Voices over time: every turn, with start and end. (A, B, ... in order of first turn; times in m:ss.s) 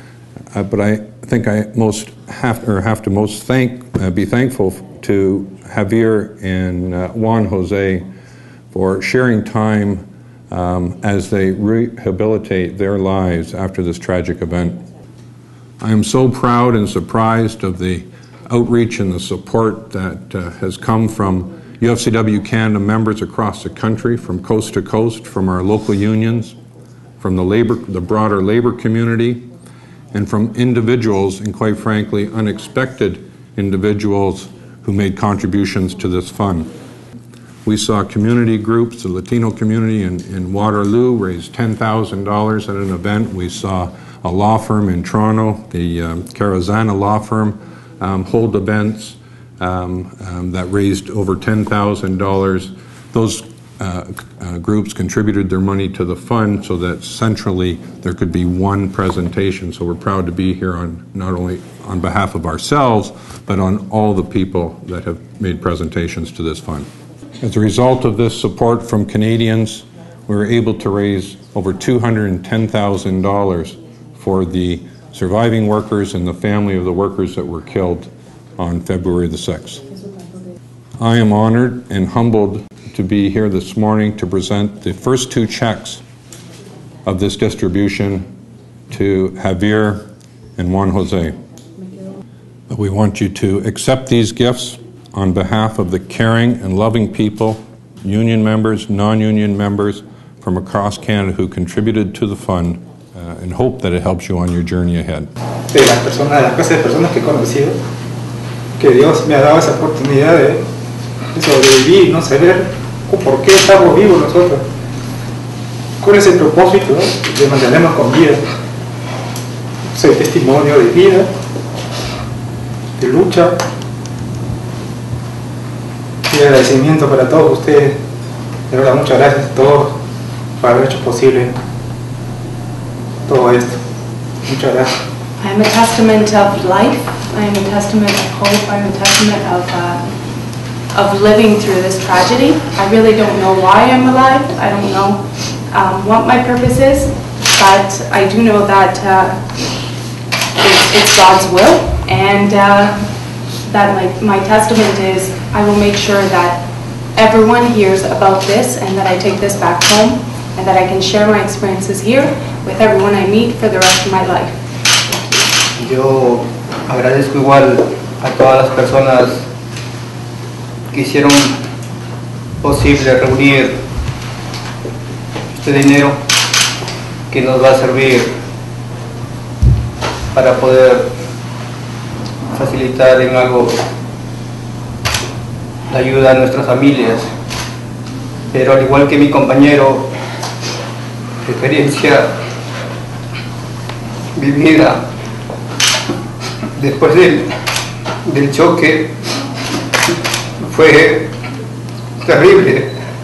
0:00.5-0:08.0 A
0:08.7-0:14.8 A
0:15.8-0:26.6 A
0:27.2-0:29.4 A
0:30.1-0:36.7 A
0:37.6-1:06.9 A
1:07.4-1:19.8 A
1:21.0-1:26.0 A
1:27.0-1:28.3 A
1:28.9-1:31.4 A
1:32.7-1:47.7 A
1:45.9-1:47.0 B
1:48.8-1:50.6 A
1:49.5-1:50.4 B
1:51.4-1:54.6 A
1:51.6-1:52.6 B
1:53.2-1:54.6 B
1:56.0-1:58.4 B
2:00.0-2:01.2 B
2:03.0-2:03.5 B
2:06.3-2:07.9 B
2:08.7-2:09.9 B
2:10.6-2:11.5 B
2:13.3-2:13.7 B
2:14.5-2:14.9 B
2:15.4-2:20.0 C
2:20.9-2:29.4 C
2:30.6-2:33.0 C
2:33.6-2:45.4 C
2:45.8-2:49.4 D
2:50.9-2:51.5 D
2:52.6-2:53.7 D
2:55.5-2:56.2 D
2:57.3-2:58.3 D
3:00.3-3:01.0 D
3:02.5-3:03.8 D
3:05.9-3:07.3 D
3:08.5-3:10.1 D
3:11.4-3:12.3 D
3:14.3-3:15.0 D
3:16.8-3:17.5 D
3:18.2-3:19.1 D
3:20.6-3:21.3 D
3:22.2-3:22.9 D